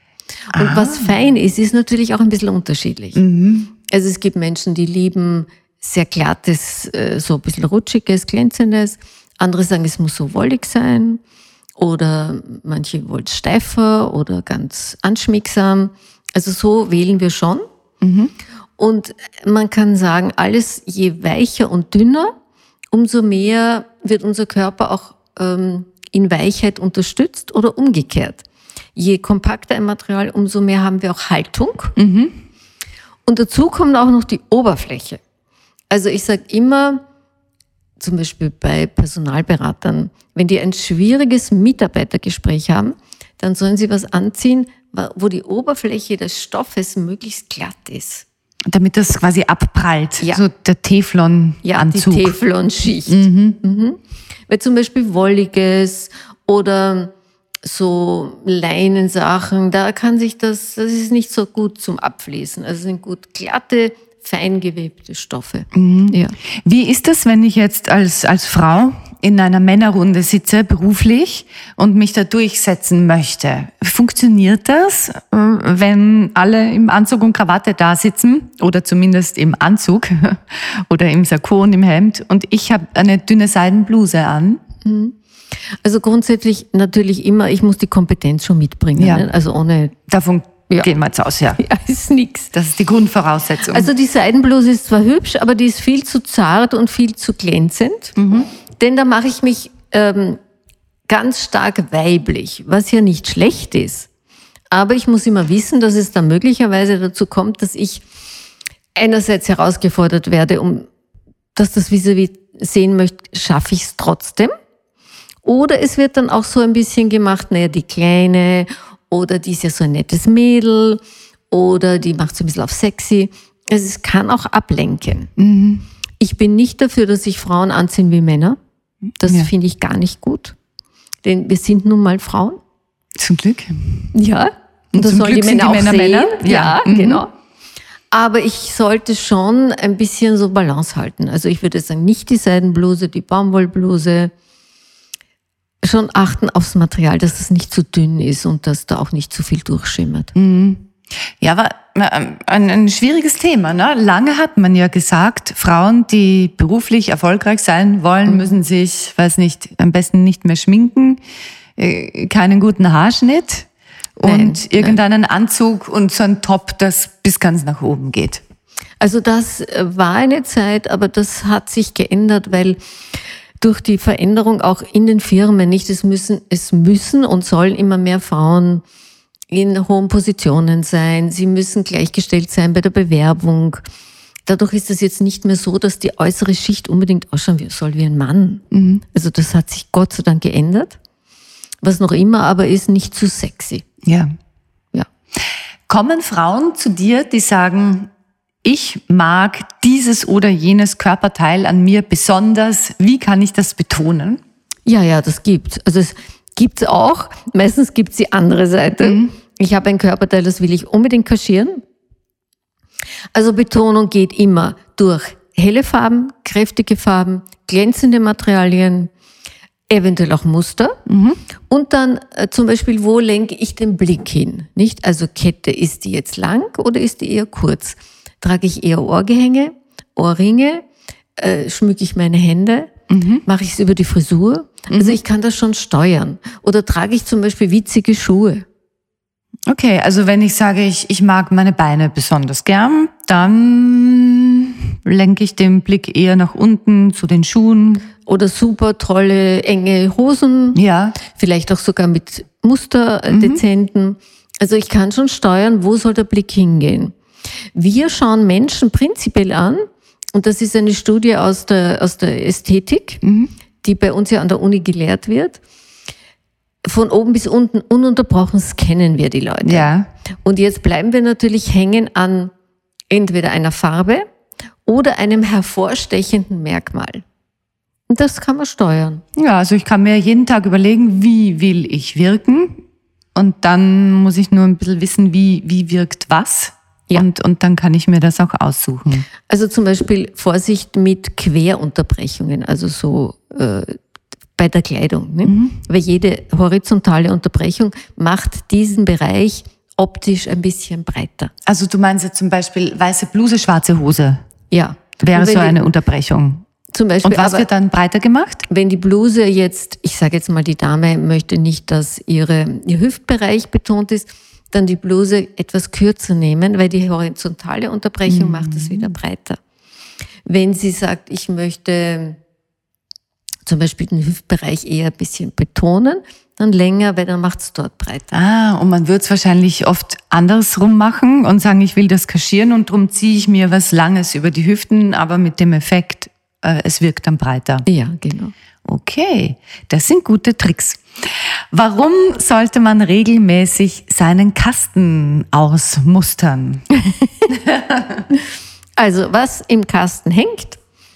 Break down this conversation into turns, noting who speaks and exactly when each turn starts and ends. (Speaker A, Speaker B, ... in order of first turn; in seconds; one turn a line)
Speaker A: 0.5-3.2
Speaker B: 0.5-1.1
Speaker B: 3.2-3.7
Speaker A: 3.8-11.2
Speaker A: 11.8-17.6
Speaker B: 18.0-18.3
Speaker A: 18.8-22.4
Speaker A: 22.9-28.4
Speaker A: 29.0-31.9
Speaker B: 32.0-32.4
Speaker A: 33.3-35.2
Speaker A: 35.9-37.0
Speaker A: 38.0-48.2
Speaker B: 48.7-52.4
Speaker A: 51.6-57.1
Speaker B: 53.1-53.6
Speaker A: 57.6-66.3
Speaker B: 65.7-84.6
Speaker A: 84.8-85.2
Speaker A: 85.8-90.0
Speaker B: 89.0-89.3
Speaker B: 90.1-91.6
Speaker A: 91.6-92.5
Speaker B: 92.5-93.9
Speaker A: 93.7-98.2
Speaker B: 98.2-98.5
Speaker A: 98.8-100.4
Speaker A: 101.1-104.1
Speaker A: 104.7-108.0
Speaker A: 109.0-110.9
Speaker A: 111.5-114.5
Speaker A: 115.4-125.3
Speaker B: 125.4-125.8
Speaker A: 126.2-128.6
Speaker A: 129.2-130.6
Speaker B: 129.2-129.5
Speaker A: 131.2-132.6
Speaker B: 133.2-134.1
Speaker A: 134.1-137.3
Speaker B: 134.9-137.2
Speaker A: 138.1-144.3
Speaker A: 145.8-150.3
Speaker B: 150.3-161.2
Speaker B: 161.8-168.4
Speaker A: 164.2-165.0
Speaker A: 169.0-172.8
Speaker A: 173.6-178.8
Speaker A: 179.5-183.8
Speaker A: 184.5-191.0
Speaker B: 188.7-189.0
Speaker A: 191.8-193.9
Speaker B: 194.0-194.3
Speaker B: 195.9-198.1
Speaker B: 198.6-204.4
Speaker A: 204.9-211.8
Speaker B: 209.0-209.3
Speaker A: 213.3-219.1
Speaker A: 219.9-221.0
Speaker B: 221.1-221.4
Speaker A: 221.7-230.9
Speaker A: 231.4-232.9
Speaker B: 233.1-233.4
Speaker A: 233.5-238.7
Speaker B: 234.9-235.2
Speaker B: 239.7-248.1
Speaker A: 248.3-257.2
Speaker B: 250.8-251.2
Speaker B: 253.3-253.6
Speaker A: 257.8-263.2
Speaker B: 263.2-263.5
Speaker A: 263.8-265.6
Speaker A: 266.9-269.9
Speaker B: 269.6-270.1
Speaker A: 270.4-272.5
Speaker A: 273.1-274.3
Speaker A: 274.9-277.2
Speaker A: 278.1-279.2
Speaker B: 279.4-282.8
Speaker B: 283.4-289.3
Speaker A: 289.5-294.0
Speaker A: 294.6-301.5
Speaker B: 295.4-295.8
Speaker B: 301.7-304.4
Speaker A: 304.7-305.9
Speaker B: 305.2-306.6
Speaker A: 306.9-307.7
Speaker B: 307.2-308.7
Speaker A: 308.7-319.6
Speaker B: 318.3-319.1
Speaker A: 320.5-322.4
Speaker A: 323.6-328.3
Speaker B: 328.3-337.9
Speaker A: 337.9-338.5
Speaker B: 338.9-341.0
Speaker B: 341.7-346.9
Speaker A: 347.2-347.4
Speaker B: 347.5-348.3
Speaker A: 349.0-350.8